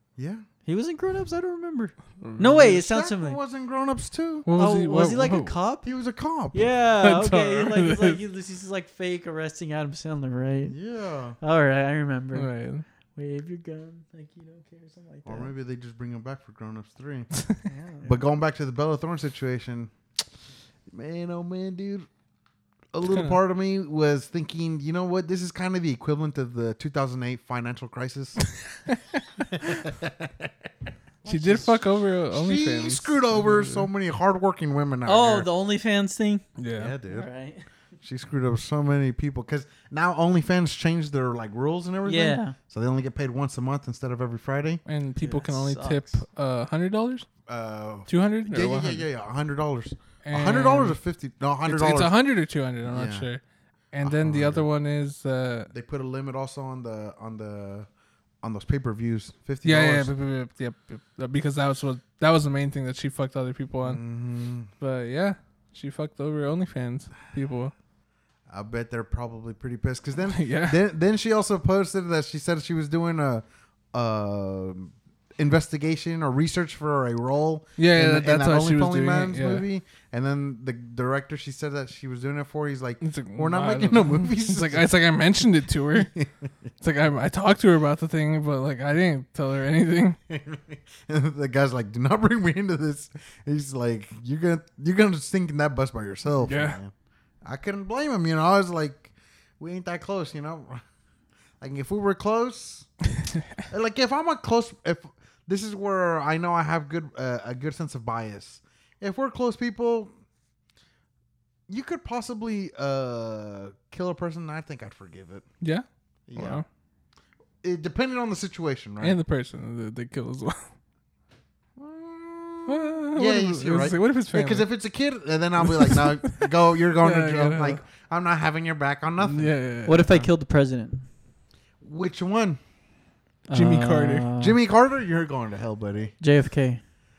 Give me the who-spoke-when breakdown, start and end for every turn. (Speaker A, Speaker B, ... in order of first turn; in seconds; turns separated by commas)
Speaker A: 0.2-0.4, Speaker B: 0.6-3.4, Speaker C: 2.2-2.7, Speaker A: 2.5-4.5, Speaker C: 4.5-5.5, Speaker B: 4.5-5.9, Speaker A: 5.8-6.7, Speaker B: 6.5-10.7, Speaker C: 7.0-8.2, Speaker A: 10.7-11.4, Speaker B: 11.4-12.5, Speaker C: 12.3-12.8, Speaker B: 13.1-15.5, Speaker A: 15.2-17.3, Speaker B: 17.6-18.2, Speaker A: 18.0-19.9, Speaker A: 20.9-22.1, Speaker A: 22.9-28.5, Speaker C: 23.1-23.4, Speaker C: 28.9-29.2, Speaker A: 29.4-30.5, Speaker A: 31.2-31.8, Speaker C: 31.2-33.9, Speaker A: 32.3-35.5, Speaker B: 35.0-36.4, Speaker C: 36.6-36.9, Speaker A: 36.7-37.3, Speaker B: 37.1-37.6, Speaker A: 38.0-44.8, Speaker B: 42.0-42.5, Speaker C: 44.8-47.3, Speaker B: 45.2-46.2, Speaker A: 47.5-52.1, Speaker C: 48.1-49.0, Speaker C: 50.2-51.0, Speaker C: 51.6-53.4, Speaker A: 52.9-53.3, Speaker C: 53.9-55.7, Speaker A: 54.0-54.7, Speaker A: 55.7-57.9, Speaker A: 58.4-60.1, Speaker C: 59.6-64.0, Speaker A: 63.8-64.7, Speaker C: 64.8-67.7, Speaker A: 68.5-84.9, Speaker C: 70.3-70.8, Speaker C: 77.8-79.6, Speaker C: 83.0-86.1, Speaker A: 85.9-86.3, Speaker C: 86.8-90.2, Speaker A: 90.3-96.9, Speaker C: 96.4-96.8, Speaker A: 97.4-100.8, Speaker A: 101.6-102.9, Speaker A: 103.7-110.1, Speaker A: 111.7-115.5, Speaker C: 115.6-116.6, Speaker A: 116.3-116.6, Speaker A: 117.6-119.2, Speaker C: 119.0-120.7, Speaker A: 121.8-129.5, Speaker C: 122.7-124.6, Speaker C: 125.6-127.8, Speaker C: 129.2-130.3, Speaker B: 129.8-131.0, Speaker A: 131.8-132.6, Speaker B: 133.5-134.6, Speaker C: 133.5-134.3, Speaker A: 134.4-136.1, Speaker B: 136.2-136.8